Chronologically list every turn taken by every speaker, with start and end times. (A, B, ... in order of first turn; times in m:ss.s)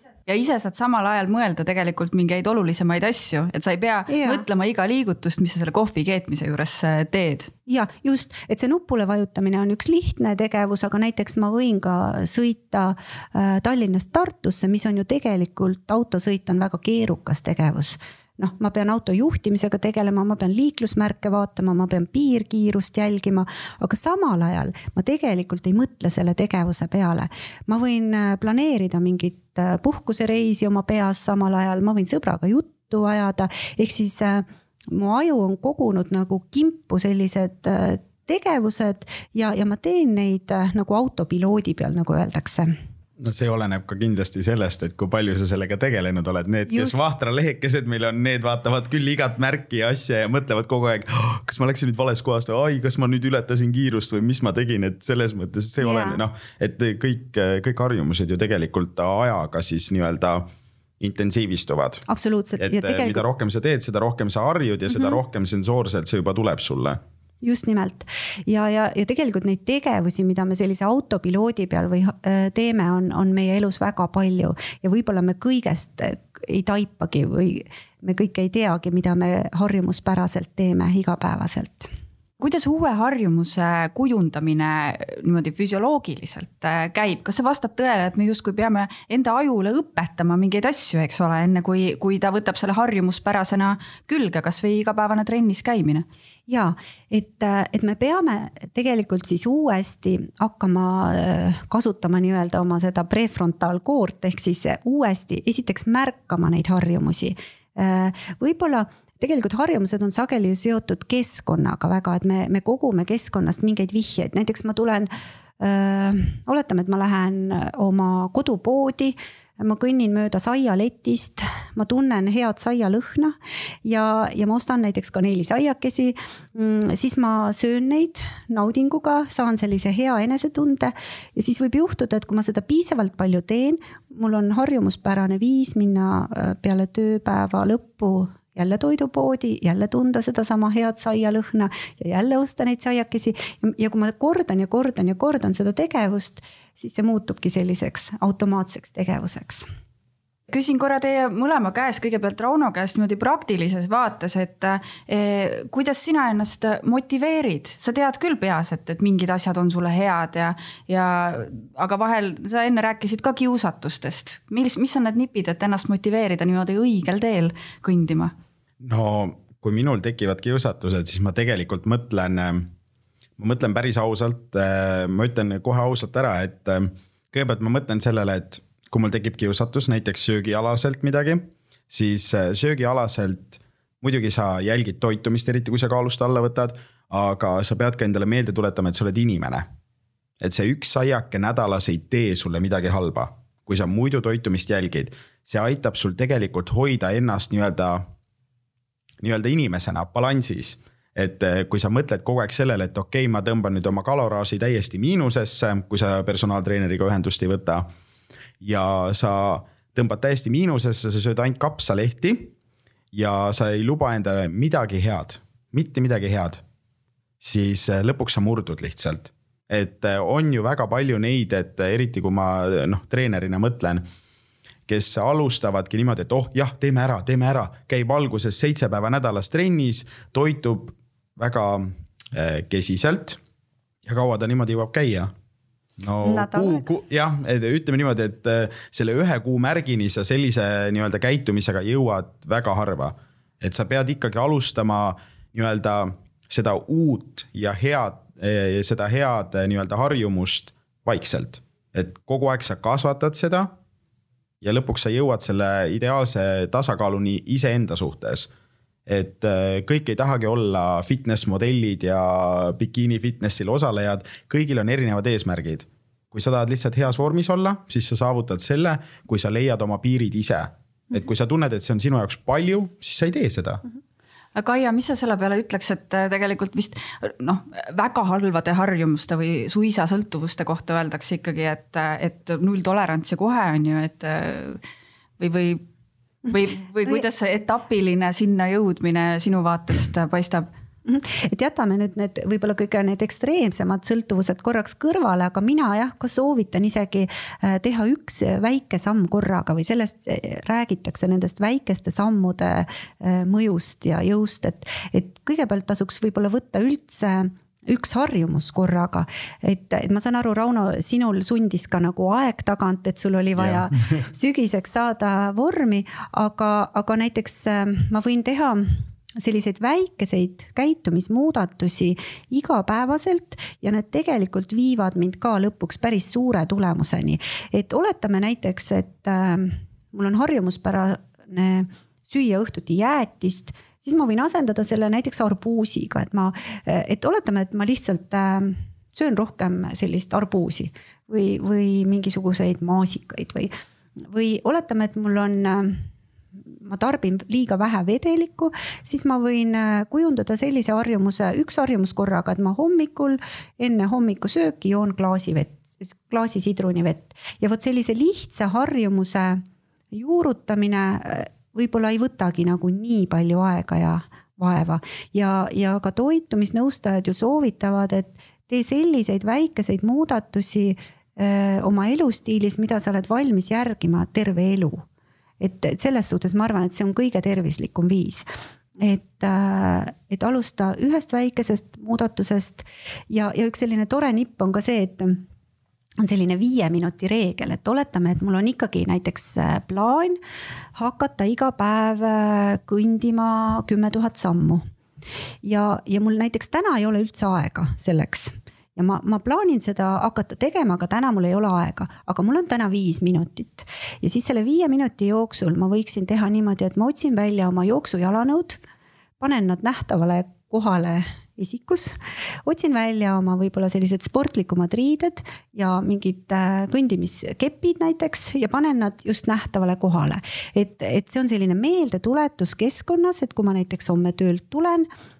0:00.2-0:07.5 A
0:04.1-0:04.4 B
0:07.7-0:42.7 B
0:43.2-1:00.5 C
0:46.7-0:47.1 B
0:55.8-0:56.2 B
1:01.0-1:02.0 C
1:02.0-1:03.2 B
1:02.6-1:07.0 C
1:07.4-1:21.9 B
1:22.4-1:36.0 A
1:36.5-2:29.6 B
2:30.5-2:48.3 A
2:48.8-2:52.7 C
2:53.4-3:09.6 C
3:10.4-3:18.0 C
3:19.2-3:27.9 C
3:28.6-3:32.5 C
3:33.1-3:36.6 C
3:37.4-3:44.0 C
3:44.9-3:53.4 C
3:54.0-3:55.3 C
3:56.0-4:13.7 C
3:56.2-3:56.9 B
4:14.6-4:18.5 C
4:19.1-4:33.8 C
4:34.6-4:44.8 A
4:45.4-4:45.8 A
4:46.5-4:50.7 A
4:51.0-5:43.7 B
5:44.3-5:46.0 B
5:46.8-6:15.0 B
6:15.6-6:18.5 B
6:19.0-6:25.4 B
6:26.2-6:30.4 B
6:31.0-6:34.8 B
6:35.6-6:48.8 B
6:49.4-7:05.1 B